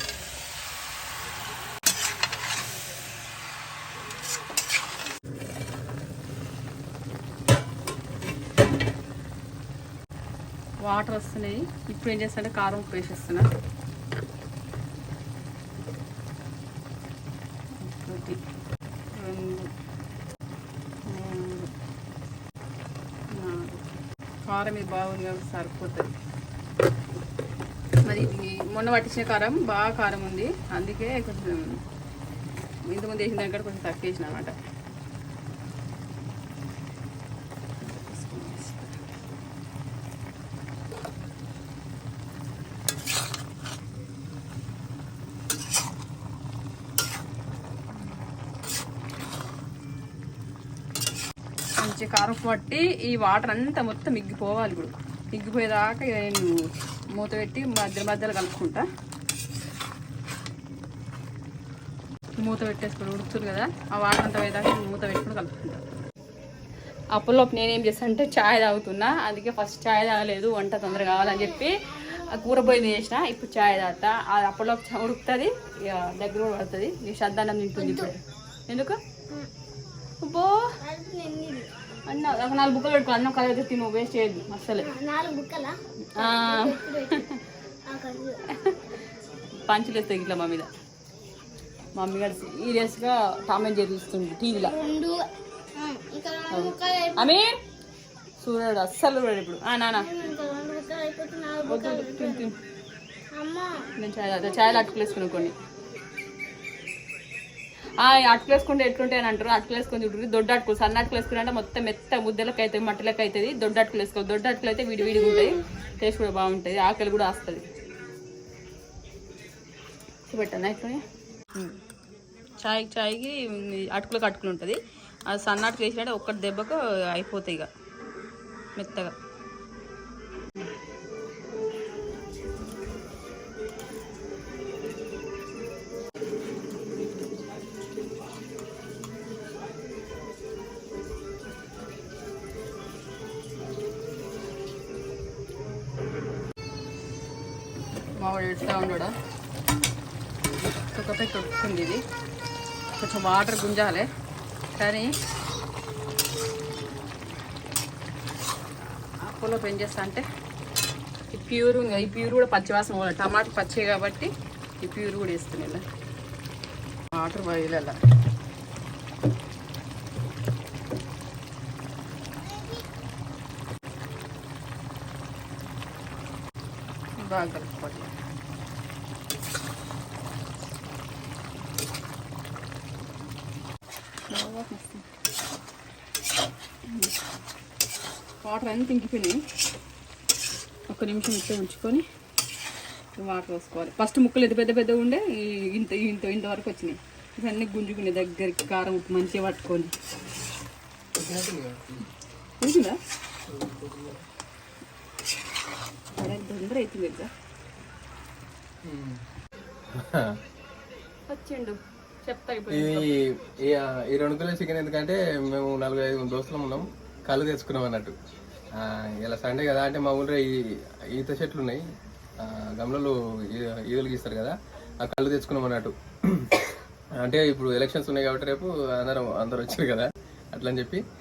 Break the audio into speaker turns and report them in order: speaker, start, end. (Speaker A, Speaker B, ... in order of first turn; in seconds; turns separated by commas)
Speaker A: 10.8-13.5, Speaker A: 17.8-18.4, Speaker A: 19.1-19.7, Speaker A: 21.1-21.7, Speaker A: 23.3-23.9, Speaker A: 24.5-26.1, Speaker A: 28.1-31.8, Speaker A: 32.9-34.5, Speaker A: 37.9-39.0, Speaker A: 51.8-56.5, Speaker A: 57.2-58.8, Speaker A: 62.4-65.8, Speaker A: 67.1-79.0, Speaker B: 77.8-78.1, Speaker A: 80.2-80.8, Speaker B: 80.8-81.7, Speaker A: 82.1-84.9, Speaker B: 84.8-87.3, Speaker A: 86.2-87.4, Speaker B: 87.9-88.4, Speaker A: 88.5-88.8, Speaker A: 89.7-90.7, Speaker A: 92.0-94.8, Speaker B: 94.6-97.3, Speaker A: 96.5-97.6, Speaker A: 98.4-100.1, Speaker B: 100.0-102.5, Speaker A: 101.6-102.5, Speaker B: 103.3-103.9, Speaker A: 104.0-105.5, Speaker A: 108.0-117.6, Speaker A: 120.3-121.0, Speaker A: 122.6-127.7, Speaker A: 128.8-129.1, Speaker A: 148.2-149.1, Speaker A: 150.9-152.0, Speaker A: 153.0-154.1, Speaker A: 154.8-155.1, Speaker A: 159.2-160.2, Speaker A: 161.3-165.8, Speaker A: 167.1-168.0, Speaker A: 177.2-178.1, Speaker A: 184.3-185.0, Speaker A: 186.9-187.1, Speaker A: 188.4-189.4, Speaker A: 190.9-192.0, Speaker A: 193.2-199.9, Speaker C: 201.2-202.1, Speaker A: 202.6-203.0, Speaker C: 203.5-204.2, Speaker A: 206.2-207.3, Speaker C: 208.8-209.2, Speaker C: 209.9-210.4, Speaker A: 211.3-213.1, Speaker C: 212.7-218.2, Speaker C: 218.7-221.8, Speaker C: 222.4-231.0